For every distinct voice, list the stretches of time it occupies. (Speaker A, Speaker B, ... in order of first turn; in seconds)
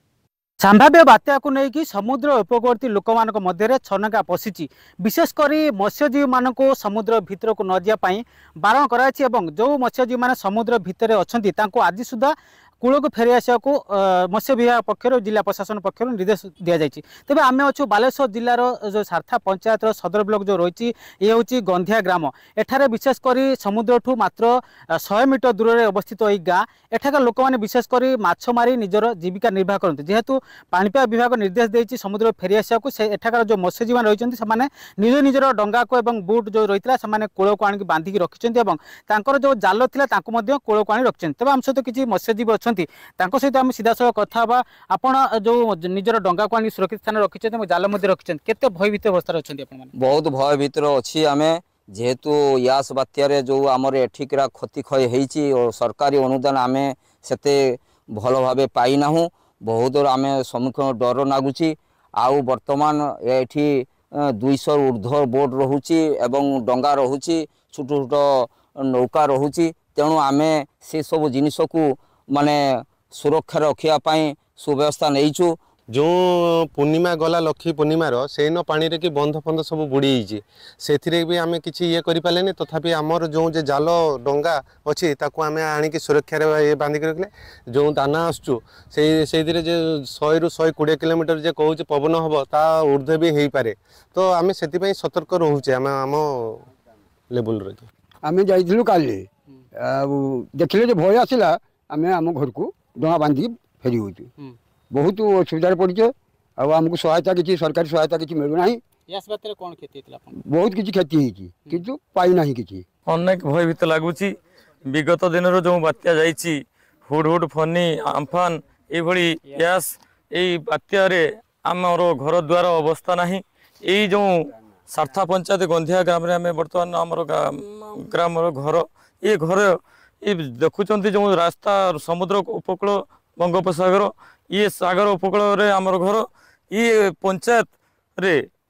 Speaker A: 0.6-49.9, 109.1-110.3
Speaker B: 50.0-57.6, 58.1-63.8, 64.4-68.2, 68.8-75.5
Speaker C: 75.9-96.6, 97.3-97.9
Speaker D: 98.2-104.3, 104.9-108.8, 110.3-112.8
Speaker E: 113.1-114.3, 114.9-124.3, 124.9-138.4